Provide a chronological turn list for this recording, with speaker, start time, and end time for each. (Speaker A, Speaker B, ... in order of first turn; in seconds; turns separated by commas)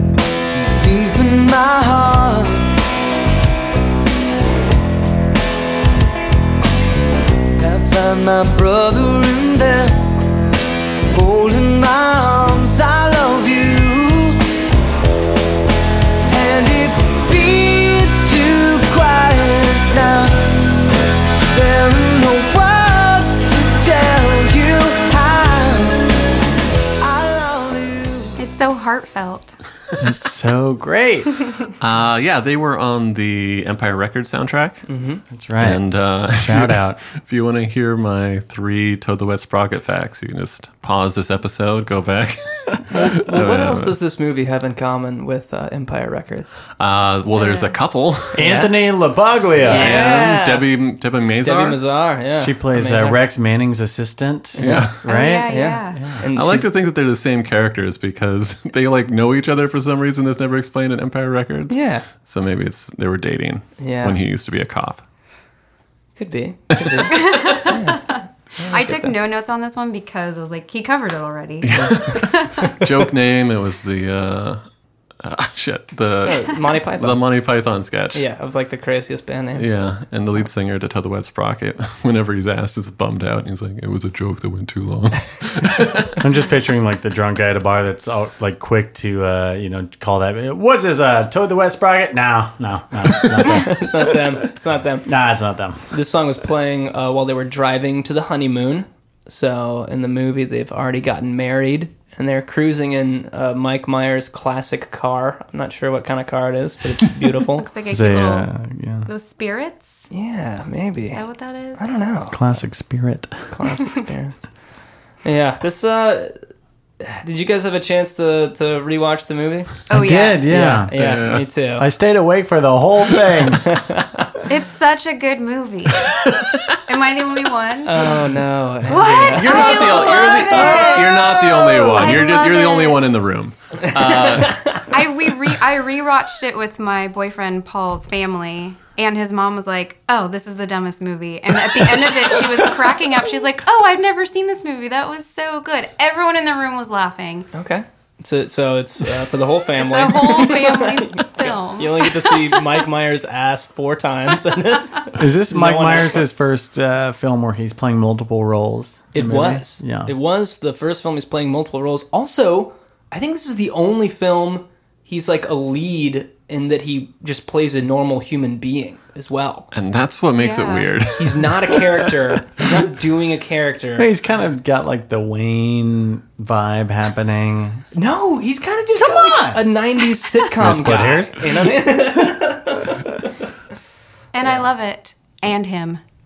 Speaker A: 0.8-2.7, Speaker A: 7.6-10.1, Speaker A: 11.1-14.4, Speaker A: 16.3-20.5, Speaker A: 21.5-26.1, Speaker A: 27.0-28.3, Speaker B: 28.4-29.6, Speaker C: 30.0-31.4, Speaker D: 31.8-34.9, Speaker E: 34.9-35.2, Speaker C: 35.3-37.0, Speaker D: 35.6-44.0, Speaker E: 42.9-46.6, Speaker D: 46.8-48.4, Speaker B: 47.3-47.8, Speaker E: 48.3-48.8, Speaker C: 48.3-50.1, Speaker D: 49.6-51.8, Speaker E: 49.7-50.7, Speaker E: 51.4-53.2, Speaker C: 52.4-56.2, Speaker D: 54.6-55.0, Speaker E: 54.6-56.7, Speaker B: 55.1-56.0, Speaker D: 56.3-65.0, Speaker E: 61.7-62.1, Speaker E: 63.8-64.2, Speaker E: 66.2-69.1, Speaker D: 66.8-67.1, Speaker B: 67.1-72.5, Speaker D: 71.6-74.6, Speaker D: 75.2-78.2, Speaker E: 76.2-77.2, Speaker E: 78.1-79.7, Speaker D: 79.6-86.2, Speaker C: 86.2-94.5, Speaker E: 93.3-95.1, Speaker C: 95.1-95.9, Speaker E: 95.9-107.7, Speaker B: 107.6-108.5, Speaker C: 107.9-109.1, Speaker B: 109.1-110.1, Speaker E: 110.1-111.2, Speaker B: 111.1-111.9, Speaker E: 111.8-112.5, Speaker C: 112.3-113.5, Speaker E: 113.5-114.4, Speaker E: 115.2-116.3, Speaker E: 117.0-119.8, Speaker B: 119.9-120.5, Speaker C: 119.9-120.9, Speaker E: 120.5-121.9, Speaker D: 120.9-121.5, Speaker C: 121.8-123.7, Speaker E: 123.6-124.2, Speaker B: 124.5-126.1, Speaker B: 126.9-128.1, Speaker E: 127.8-131.0, Speaker B: 128.9-133.1, Speaker D: 129.3-134.6, Speaker E: 133.9-134.8, Speaker B: 134.9-147.5, Speaker E: 141.8-142.8, Speaker E: 147.5-156.3, Speaker B: 149.8-152.3, Speaker C: 155.1-160.1, Speaker E: 159.1-169.7, Speaker D: 169.7-172.1, Speaker B: 170.4-170.9, Speaker E: 171.2-174.1, Speaker C: 174.0-177.8, Speaker E: 177.9-183.1, Speaker C: 179.0-179.6, Speaker C: 180.5-182.4, Speaker B: 184.3-186.0